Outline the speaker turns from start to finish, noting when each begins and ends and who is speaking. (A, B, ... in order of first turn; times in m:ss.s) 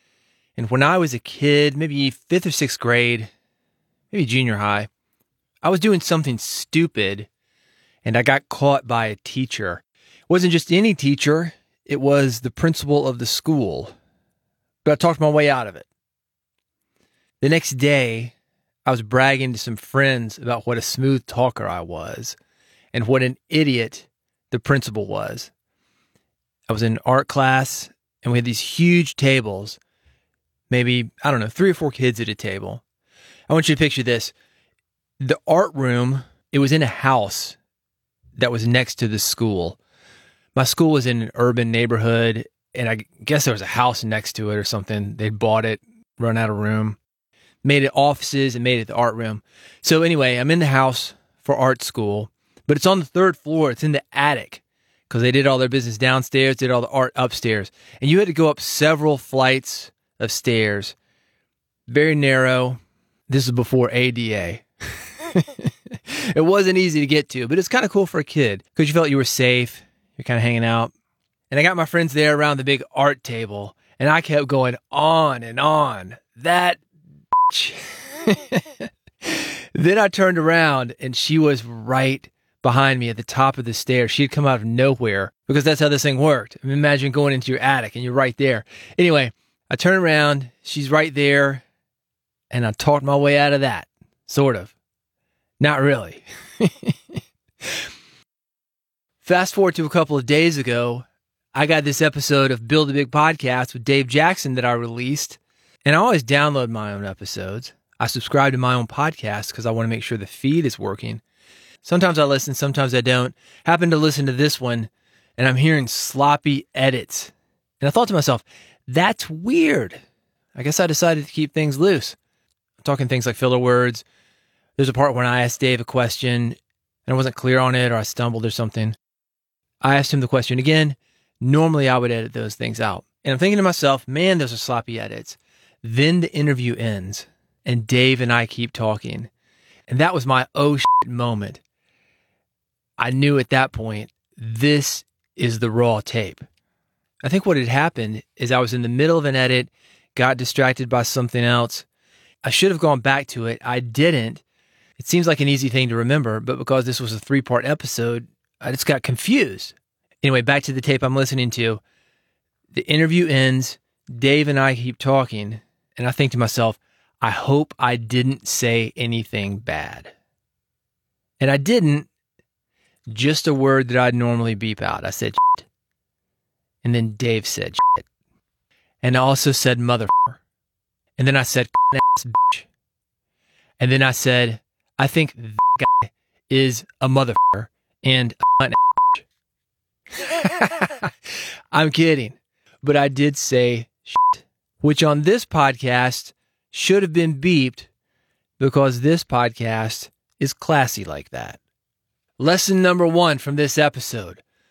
0:00.6-0:03.3 A
0:04.1-0:04.9 A
0:05.6-0:07.3 A
0:08.0-0:13.9 A
0:14.8-0:15.9 A
0:17.4-0:18.3 A
0:18.8-0:22.4 A
0:22.9-0:25.5 A
0:26.7-0:29.8 A
0:30.7-0:32.8 A
0:33.5-0:34.3 A
0:35.2-0:37.6 A
0:38.4-0:39.8 A
0:40.6-0:47.0 A
0:47.6-1:01.0 A
1:01.9-1:04.6 A
1:05.2-1:10.9 A
1:11.5-1:16.8 A
1:17.5-1:31.6 A
1:32.5-1:34.8 A
1:35.6-1:37.2 A
1:39.2-1:51.2 A
1:51.8-2:00.0 A
2:00.6-2:02.2 A
2:02.8-2:04.0 A
2:04.8-2:09.0 A
2:09.8-2:19.3 A
2:19.9-2:21.6 A
2:23.0-2:26.5 A
2:27.2-2:31.9 A
2:32.4-2:34.4 A
2:35.0-2:41.8 A
2:42.7-2:50.1 A
2:51.4-2:52.1 A
2:53.1-2:55.7 A
2:56.8-2:58.1 A
2:59.0-3:00.4 A
3:01.2-3:02.7 A
3:03.8-3:09.3 A
3:10.2-3:17.9 A
3:18.6-3:21.6 A
3:22.4-3:24.4 A